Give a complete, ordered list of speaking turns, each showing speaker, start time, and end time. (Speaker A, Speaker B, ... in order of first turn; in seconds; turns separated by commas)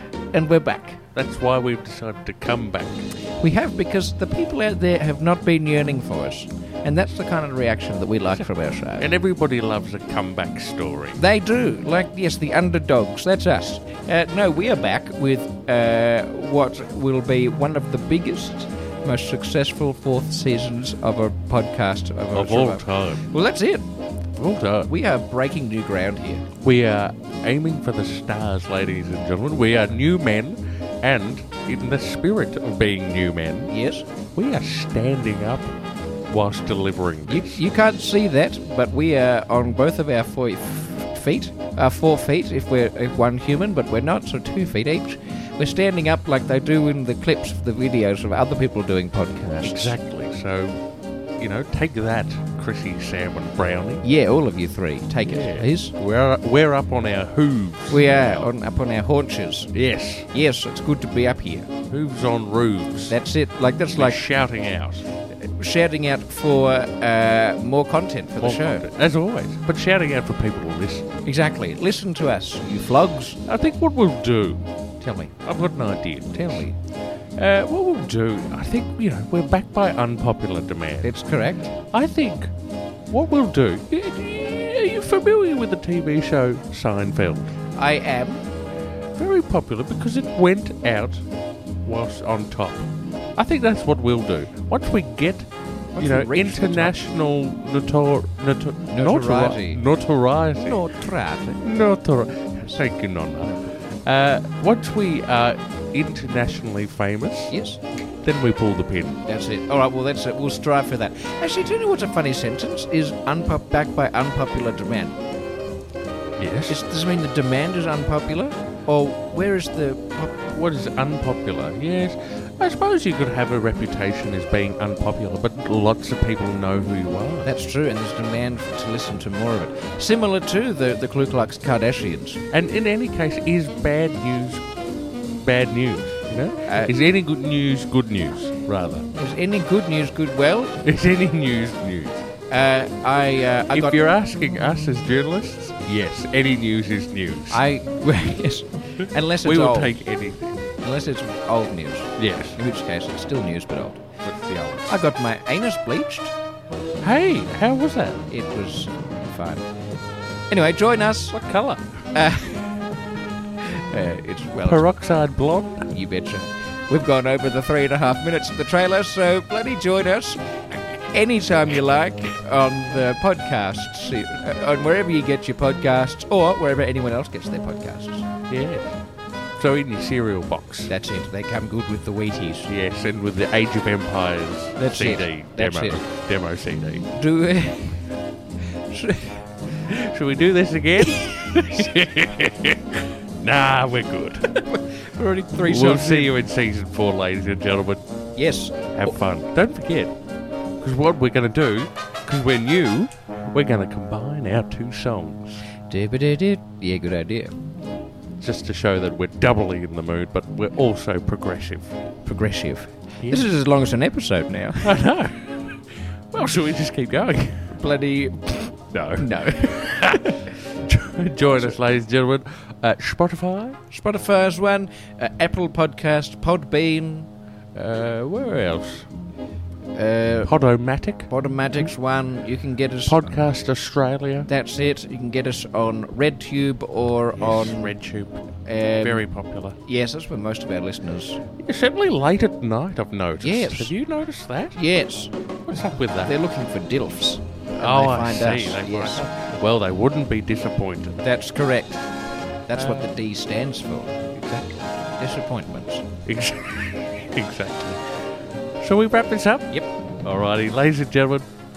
Speaker A: 0.3-1.0, Speaker B: 1.1-3.1, Speaker A: 3.4-9.1, Speaker B: 9.0-11.2, Speaker A: 11.2-23.9, Speaker B: 22.3-23.3, Speaker B: 24.4-24.9, Speaker A: 24.9-26.5, Speaker B: 26.6-33.7, Speaker A: 33.7-34.1, Speaker B: 34.4-35.7, Speaker B: 36.3-37.6, Speaker A: 37.3-50.0, Speaker B: 49.6-50.8, Speaker B: 51.4-54.0, Speaker A: 54.0-55.9, Speaker B: 55.3-58.5, Speaker A: 57.9-59.7, Speaker B: 59.7-60.3, Speaker A: 60.3-61.7, Speaker B: 61.9-63.2, Speaker A: 63.1-64.2, Speaker B: 63.9-65.1, Speaker A: 65.3-68.8, Speaker B: 68.4-71.1, Speaker A: 71.2-73.4, Speaker B: 73.5-74.6, Speaker A: 75.0-75.3, Speaker B: 75.4-76.7, Speaker A: 76.3-76.8, Speaker B: 77.4-81.2, Speaker A: 81.0-81.7, Speaker B: 81.8-82.5, Speaker B: 83.1-87.5, Speaker A: 87.8-88.4, Speaker B: 89.2-91.3, Speaker B: 91.8-100.8, Speaker A: 96.0-97.0, Speaker A: 98.9-99.8, Speaker A: 100.5-101.7, Speaker B: 101.6-107.5, Speaker A: 107.5-107.8, Speaker B: 108.2-109.2, Speaker A: 109.3-115.2, Speaker B: 116.4-116.8, Speaker A: 116.7-120.4, Speaker B: 120.5-127.5, Speaker A: 127.5-132.4, Speaker B: 132.5-134.6, Speaker B: 135.4-139.1, Speaker A: 136.7-136.9, Speaker A: 139.1-140.8, Speaker B: 140.8-142.2, Speaker A: 142.5-144.0, Speaker B: 143.7-147.6, Speaker A: 147.5-149.9, Speaker B: 149.0-150.7, Speaker A: 150.8-154.0, Speaker B: 152.2-152.6, Speaker B: 154.2-155.0, Speaker A: 154.9-156.3, Speaker B: 157.0-158.2, Speaker A: 158.3-159.7, Speaker A: 160.5-161.4, Speaker B: 161.3-161.8, Speaker A: 162.1-162.8, Speaker A: 163.6-164.9, Speaker B: 164.6-165.9, Speaker A: 165.9-178.3, Speaker B: 178.5-179.0, Speaker B: 179.6-180.9, Speaker A: 180.9-182.7, Speaker B: 182.7-187.1, Speaker A: 184.8-186.0, Speaker A: 187.1-188.1, Speaker A: 188.9-189.5, Speaker B: 189.8-194.7, Speaker A: 194.7-196.3, Speaker B: 195.6-198.0, Speaker A: 198.4-199.1, Speaker B: 198.9-200.1, Speaker B: 200.8-205.7, Speaker A: 205.9-207.6, Speaker B: 208.4-212.0, Speaker A: 212.2-215.0, Speaker B: 213.2-213.5, Speaker B: 214.8-215.8, Speaker B: 216.3-217.8, Speaker A: 217.7-220.4, Speaker B: 218.9-223.8, Speaker A: 223.9-227.3, Speaker B: 227.7-229.1, Speaker A: 229.9-230.6, Speaker B: 230.4-231.3, Speaker A: 231.3-233.5, Speaker B: 233.1-234.5, Speaker A: 234.5-238.0, Speaker B: 237.4-239.8, Speaker A: 238.7-239.3, Speaker A: 239.8-241.4, Speaker B: 241.6-244.8, Speaker A: 243.4-243.9, Speaker A: 244.8-245.3, Speaker B: 245.7-246.4, Speaker A: 246.2-249.3, Speaker B: 247.8-251.2, Speaker A: 251.2-252.0, Speaker A: 252.7-254.2, Speaker B: 252.7-253.1, Speaker B: 254.3-254.8, Speaker A: 255.2-256.1, Speaker B: 256.3-258.0, Speaker B: 258.8-261.5